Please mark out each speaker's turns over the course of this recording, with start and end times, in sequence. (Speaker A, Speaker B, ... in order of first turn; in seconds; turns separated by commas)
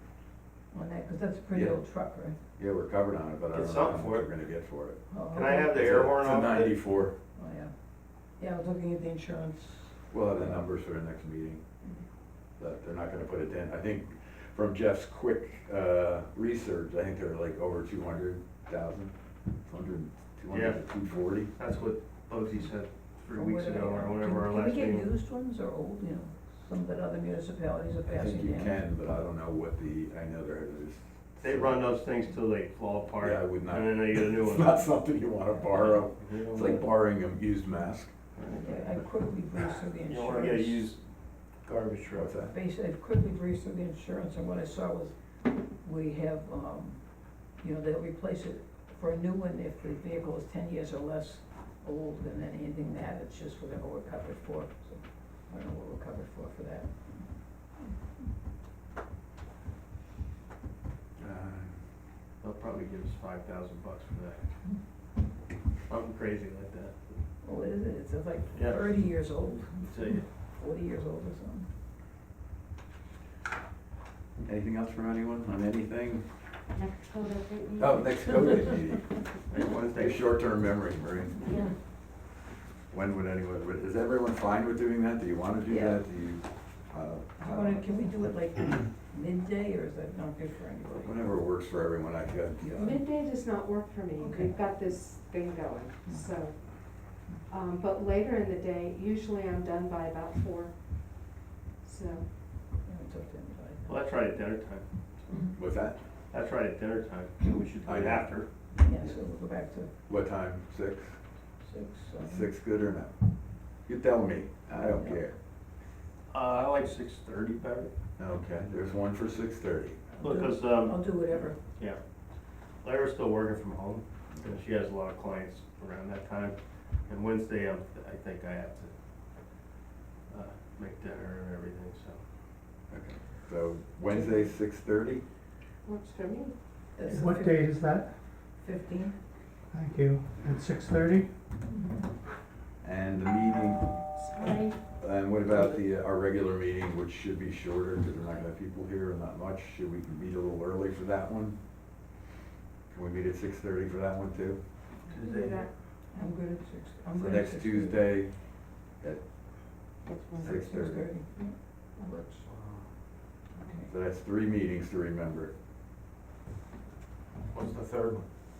Speaker A: 0.7-2.4, Speaker B: 1.5-1.8, Speaker B: 2.6-5.0, Speaker C: 3.5-4.3, Speaker A: 5.1-5.7, Speaker C: 5.3-6.8, Speaker B: 5.7-7.1, Speaker A: 7.3-7.7, Speaker A: 8.4-10.6, Speaker B: 10.1-11.6, Speaker B: 12.6-21.5, Speaker C: 20.5-20.9, Speaker C: 21.6-25.1, Speaker A: 23.3-28.8, Speaker B: 28.1-31.8, Speaker C: 31.4-34.9, Speaker B: 33.2-38.1, Speaker C: 36.2-36.8, Speaker C: 38.3-39.0, Speaker A: 38.6-40.8, Speaker C: 40.0-41.0, Speaker C: 41.6-42.3, Speaker B: 42.1-42.5, Speaker A: 42.5-57.9, Speaker B: 61.2-61.8, Speaker C: 62.4-64.5, Speaker C: 65.9-67.2, Speaker A: 67.4-71.7, Speaker C: 68.5-68.8, Speaker C: 69.8-70.3, Speaker B: 74.4-76.2, Speaker D: 76.7-78.2, Speaker B: 77.8-79.1, Speaker C: 79.5-80.3, Speaker B: 80.0-81.4, Speaker D: 81.4-81.7, Speaker B: 82.9-87.8, Speaker A: 85.7-86.0, Speaker A: 87.4-91.1, Speaker B: 91.0-92.7, Speaker A: 92.6-93.0, Speaker D: 92.7-96.6, Speaker A: 94.2-94.5, Speaker D: 97.5-102.3, Speaker A: 102.8-103.9, Speaker C: 103.9-105.5, Speaker B: 105.5-106.0, Speaker C: 106.3-108.5, Speaker B: 107.8-108.3, Speaker A: 108.8-109.9, Speaker B: 110.1-111.2, Speaker A: 111.6-112.5, Speaker B: 112.2-113.1, Speaker B: 113.8-115.3, Speaker A: 114.9-115.2, Speaker C: 116.3-117.9, Speaker B: 118.2-120.0, Speaker A: 120.1-121.6, Speaker C: 120.2-122.0, Speaker C: 122.8-126.5, Speaker C: 127.1-128.9, Speaker C: 130.3-132.2, Speaker B: 132.9-135.2, Speaker D: 135.8-136.5, Speaker A: 137.0-137.6, Speaker E: 137.1-138.2, Speaker A: 138.5-139.2, Speaker E: 139.7-141.4, Speaker A: 141.7-142.1, Speaker B: 142.8-144.0, Speaker D: 144.1-144.8, Speaker B: 145.0-151.6, Speaker B: 152.9-154.6, Speaker C: 155.1-155.7, Speaker D: 155.1-155.7, Speaker A: 156.1-158.1, Speaker B: 157.2-159.2, Speaker D: 160.1-160.4, Speaker A: 160.4-162.4, Speaker B: 160.4-161.1, Speaker C: 162.4-162.9, Speaker A: 163.6-163.9, Speaker B: 163.9-165.5, Speaker C: 167.5-168.3